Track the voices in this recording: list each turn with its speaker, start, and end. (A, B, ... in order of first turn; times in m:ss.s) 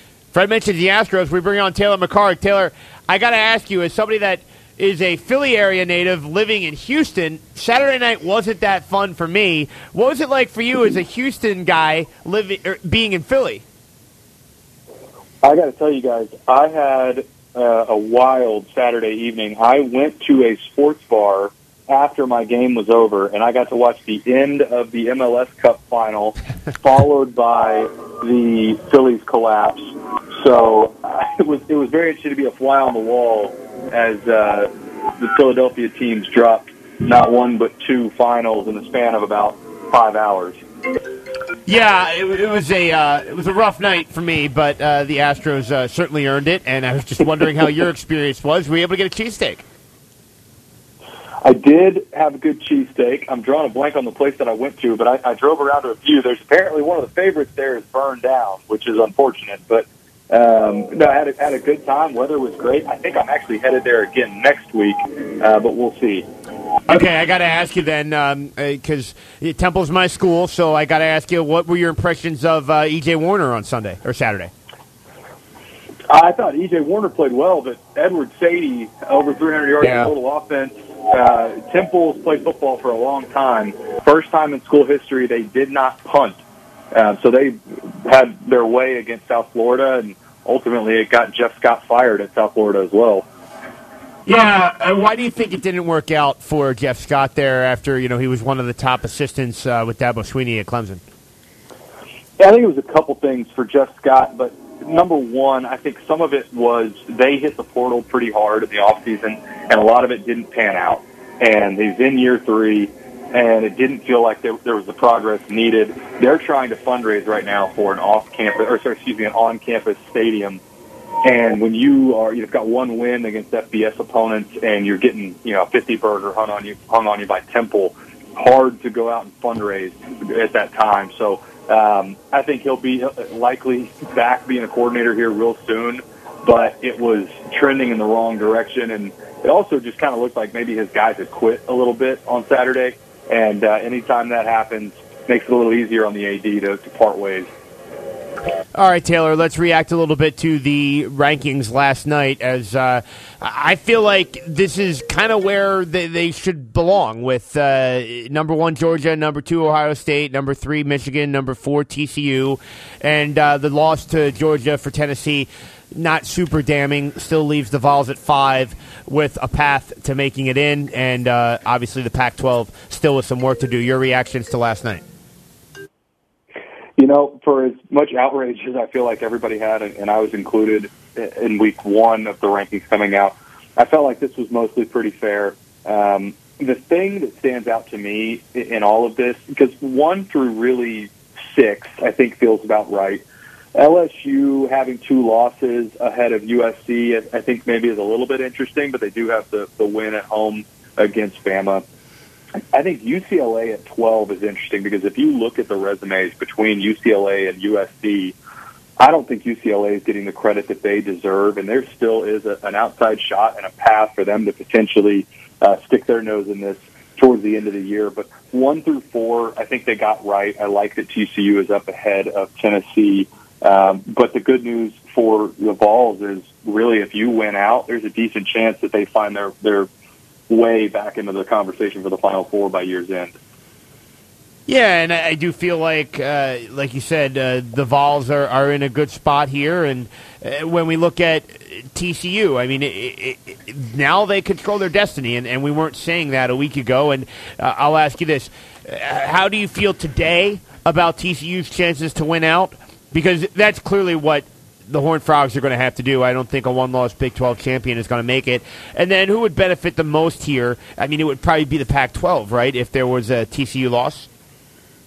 0:00.3-0:13.6 A
0:15.4-0:40.6 B
0:41.6-0:49.6 A
0:51.4-1:06.3 B
1:06.9-1:14.5 A
1:16.1-1:26.4 B
1:19.8-1:20.1 A
1:26.9-1:33.2 B
1:34.2-1:41.0 A
1:42.4-2:00.6 B
2:01.2-2:27.5 B
2:28.7-2:55.0 A
2:57.0-3:13.2 B
3:13.7-3:21.8 B
3:22.7-3:28.3 B
3:29.0-3:49.9 B
3:50.5-3:53.3 B
3:54.7-4:24.3 A